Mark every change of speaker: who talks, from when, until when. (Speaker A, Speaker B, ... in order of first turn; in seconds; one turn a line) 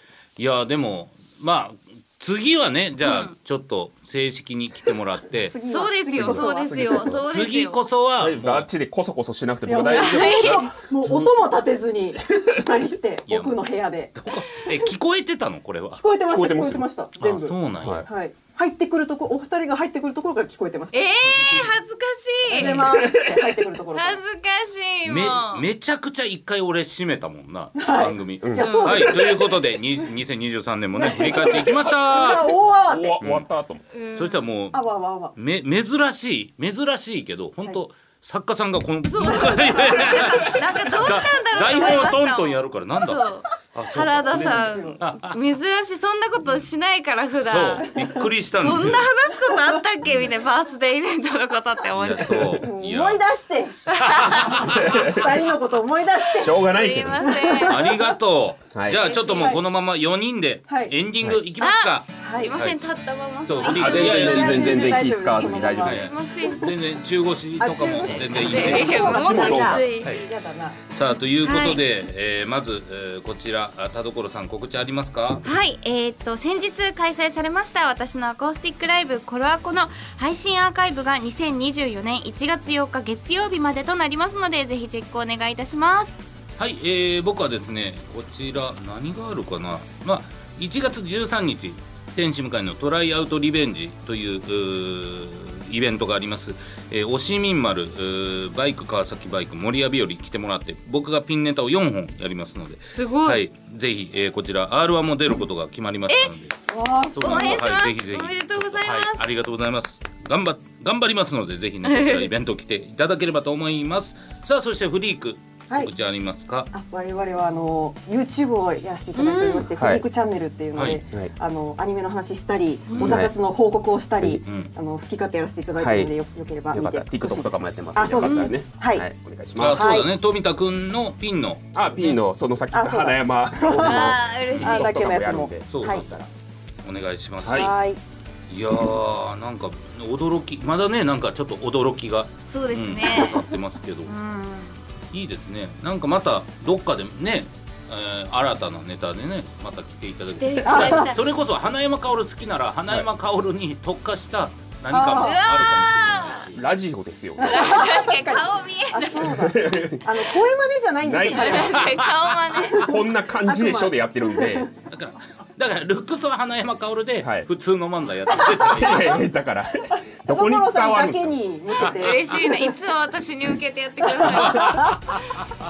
Speaker A: 0.4-5.5
Speaker B: 3.0-3.3
Speaker C: 5.4-7.0
Speaker B: 5.6-7.8
Speaker D: 6.2-7.2
Speaker A: 7.3-8.7
Speaker D: 8.2-11.3
Speaker C: 9.7-14.1
Speaker B: 9.9-10.7
Speaker A: 13.3-13.6
Speaker A: 14.1-16.0
Speaker C: 15.9-21.7
Speaker D: 16.3-16.8
Speaker A: 17.2-18.1
Speaker D: 17.8-18.1
Speaker B: 20.9-23.0
Speaker C: 22.5-24.2
Speaker D: 22.6-23.6
Speaker B: 23.9-25.6
Speaker A: 25.1-32.5
Speaker C: 27.8-29.7
Speaker D: 28.4-28.7
Speaker B: 28.6-29.1
Speaker C: 31.0-33.2
Speaker D: 32.2-33.8
Speaker A: 33.2-33.5
Speaker B: 33.9-34.4
Speaker A: 34.1-45.4
Speaker C: 34.7-35.3
Speaker B: 39.1-47.9
Speaker C: 39.6-40.4
Speaker C: 44.3-45.0
Speaker A: 47.4-49.1
Speaker C: 48.0-48.2
Speaker B: 48.6-52.5
Speaker C: 49.4-49.8
Speaker A: 50.0-50.3
Speaker A: 52.0-53.2
Speaker C: 52.6-58.1
Speaker B: 53.9-54.6
Speaker A: 54.0-55.3
Speaker D: 54.8-55.3
Speaker D: 56.4-57.3
Speaker B: 56.5-57.8
Speaker A: 57.7-62.8
Speaker D: 58.7-59.0
Speaker B: 58.9-59.6
Speaker C: 59.1-59.6
Speaker C: 60.7-60.9
Speaker B: 61.6-66.7
Speaker C: 62.2-62.5
Speaker A: 63.5-64.6
Speaker D: 63.6-66.0
Speaker C: 63.6-66.7
Speaker A: 65.8-69.2
Speaker C: 67.6-70.8
Speaker B: 68.1-70.1
Speaker D: 68.6-69.9
Speaker A: 70.0-70.3
Speaker A: 70.9-75.4
Speaker B: 71.4-71.8
Speaker B: 75.4-86.2
Speaker A: 86.6-106.5
Speaker B: 102.9-103.4
Speaker C: 106.7-107.6
Speaker A: 107.1-116.7
Speaker B: 107.2-109.2
Speaker B: 111.8-112.3
Speaker C: 116.7-129.1
Speaker B: 119.2-119.6
Speaker D: 119.5-120.0
Speaker A: 120.7-121.0
Speaker B: 122.9-123.2
Speaker D: 123.0-123.3
Speaker A: 124.4-124.7
Speaker D: 125.8-126.1
Speaker D: 126.7-130.0
Speaker B: 128.1-128.5
Speaker A: 129.6-132.2
Speaker C: 129.7-130.1
Speaker D: 131.7-136.3
Speaker C: 132.7-136.0
Speaker B: 133.8-135.1
Speaker A: 134.5-134.8
Speaker A: 135.7-136.1
Speaker A: 136.8-137.7
Speaker D: 137.4-137.7
Speaker C: 137.5-138.0
Speaker A: 138.5-144.1
Speaker B: 142.4-143.4
Speaker C: 143.1-143.4
Speaker B: 144.1-144.8
Speaker A: 145.1-156.7
Speaker B: 150.3-151.2
Speaker C: 150.6-151.1
Speaker C: 154.9-155.4
Speaker B: 155.1-156.5
Speaker D: 156.5-158.0
Speaker C: 157.4-162.1
Speaker B: 157.5-159.2
Speaker D: 159.2-160.2
Speaker D: 161.0-162.0
Speaker B: 161.3-162.8
Speaker D: 162.7-164.7
Speaker C: 162.8-164.7
Speaker A: 164.9-169.2
Speaker D: 167.2-167.5
Speaker D: 168.6-171.4
Speaker C: 170.3-172.7
Speaker B: 172.0-175.2
Speaker C: 174.2-174.9
Speaker A: 174.3-175.2